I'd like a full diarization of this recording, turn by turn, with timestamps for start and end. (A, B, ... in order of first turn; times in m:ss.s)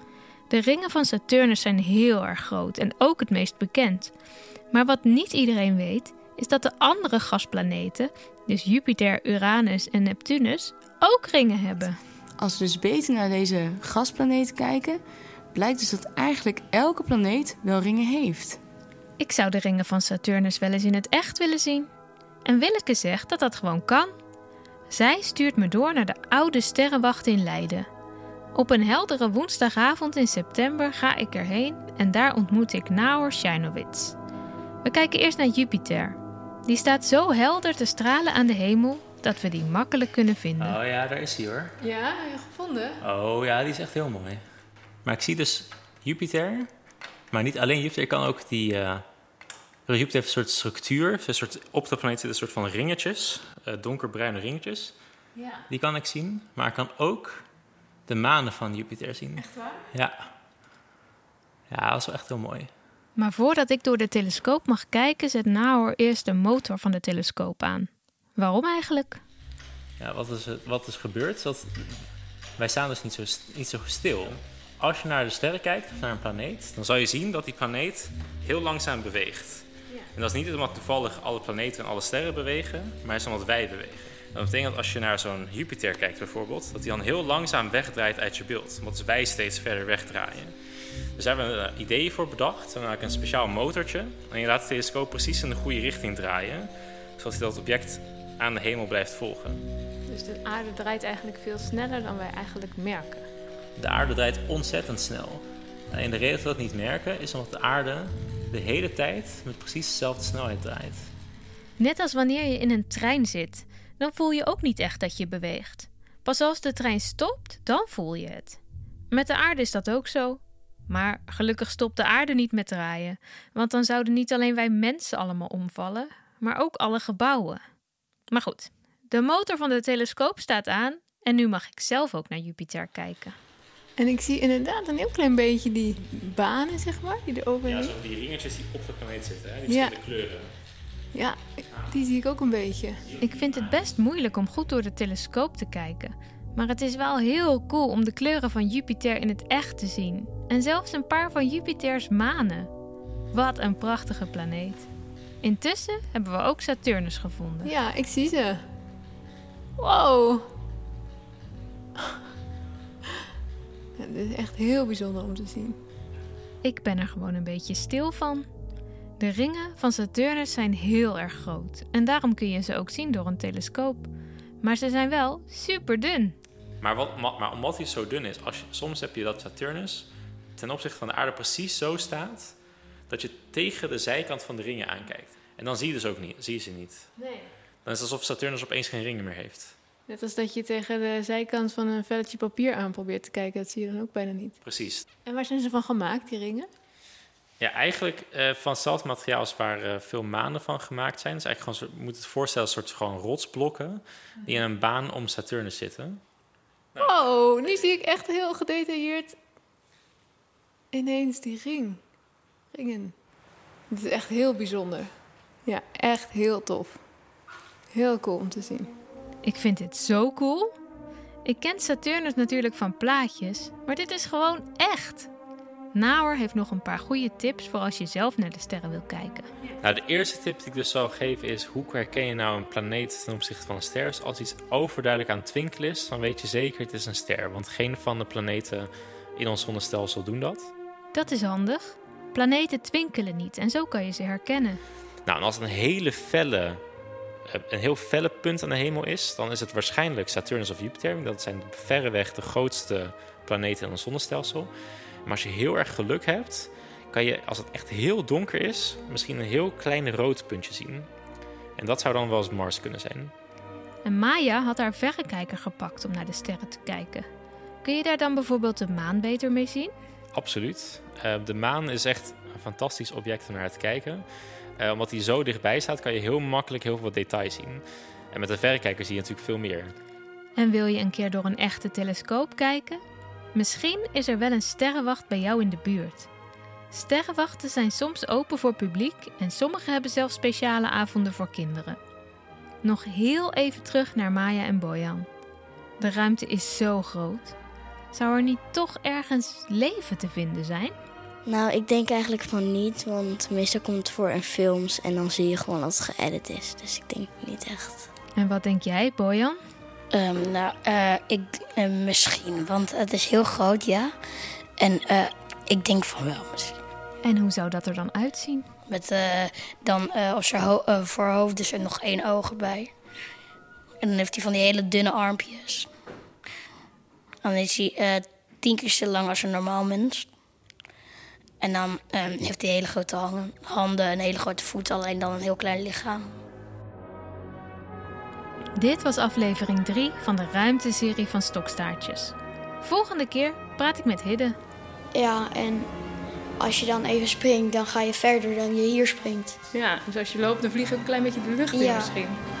0:00.5-0:04.1 A
0:04.7-0:12.0 A
0:12.4-0:15.0 B
0:15.5-0:18.6 B
0:19.2-0:21.9 A
0:22.4-0:24.1 A
0:24.9-0:27.9 A
0:28.6-0:34.2 A
0:34.8-0:40.8 A
0:40.6-0:41.7 C
0:41.8-0:43.0 D
0:43.0-0:44.4 C
0:45.0-0:46.7 C
0:47.3-0:49.0 C
0:49.9-0:54.9 C
0:55.7-0:57.4 C
0:58.1-1:00.2 C
1:01.7-1:02.7 C
1:03.2-1:09.2 A
1:10.0-1:12.0 C
1:12.6-1:30.5 C
1:31.2-1:39.6 C
1:40.1-1:43.2 D
1:43.8-1:51.1 C
1:51.8-1:58.6 A
1:59.1-2:07.6 A
2:08.3-2:13.3 A
2:14.0-2:17.9 D
2:17.6-2:20.5 C
2:19.7-2:20.0 D
2:21.1-2:23.0 D
2:23.1-2:23.7 C
2:23.2-2:32.7 A
2:33.3-2:34.9 A
2:35.4-2:37.7 A
2:37.6-2:38.6 D
2:39.8-2:40.4 D
2:44.0-2:45.8 D
2:46.6-2:48.5 A
2:49.2-2:54.1 A
2:54.6-2:56.3 A
2:56.8-3:02.5 C
3:03.1-3:07.0 C
3:07.8-3:09.7 C
3:10.1-3:14.5 D
3:14.6-3:15.0 C
3:15.3-3:16.7 D
3:17.6-3:26.2 C
3:26.9-3:27.8 C
3:27.0-3:29.4 D
3:30.9-3:32.0 D
3:32.7-3:33.1 D
3:33.9-3:35.1 D
3:35.6-3:37.0 D
3:37.9-3:38.9 D
3:39.4-3:40.7 A
3:41.4-3:45.3 A
3:45.9-3:49.5 A
3:49.8-4:00.7 C
4:01.1-4:04.8 A
4:05.2-4:06.8 C
4:07.5-4:14.7 C
4:15.2-4:21.1 C
4:21.8-4:23.3 C
4:24.0-4:27.3 A
4:27.8-4:29.9 A
4:30.3-4:34.2 C
4:34.8-4:39.9 C
4:40.6-4:43.0 A
4:43.5-4:46.3 A
4:46.9-4:52.0 A
4:52.8-4:55.3 A
4:56.0-4:57.5 A
4:58.1-5:00.9 A
5:01.4-5:08.1 E
5:08.4-5:09.6 A
5:10.1-5:14.1 F
5:14.8-5:16.8 F
5:17.2-5:18.7 A
5:18.9-5:22.9 F
5:24.0-5:25.9 F
5:27.4-5:30.3 F
5:31.6-5:36.3 F
5:38.8-5:44.6 A
5:45.1-5:45.9 G
5:46.6-5:49.6 G
5:49.7-5:52.4 D
5:51.7-5:52.1 G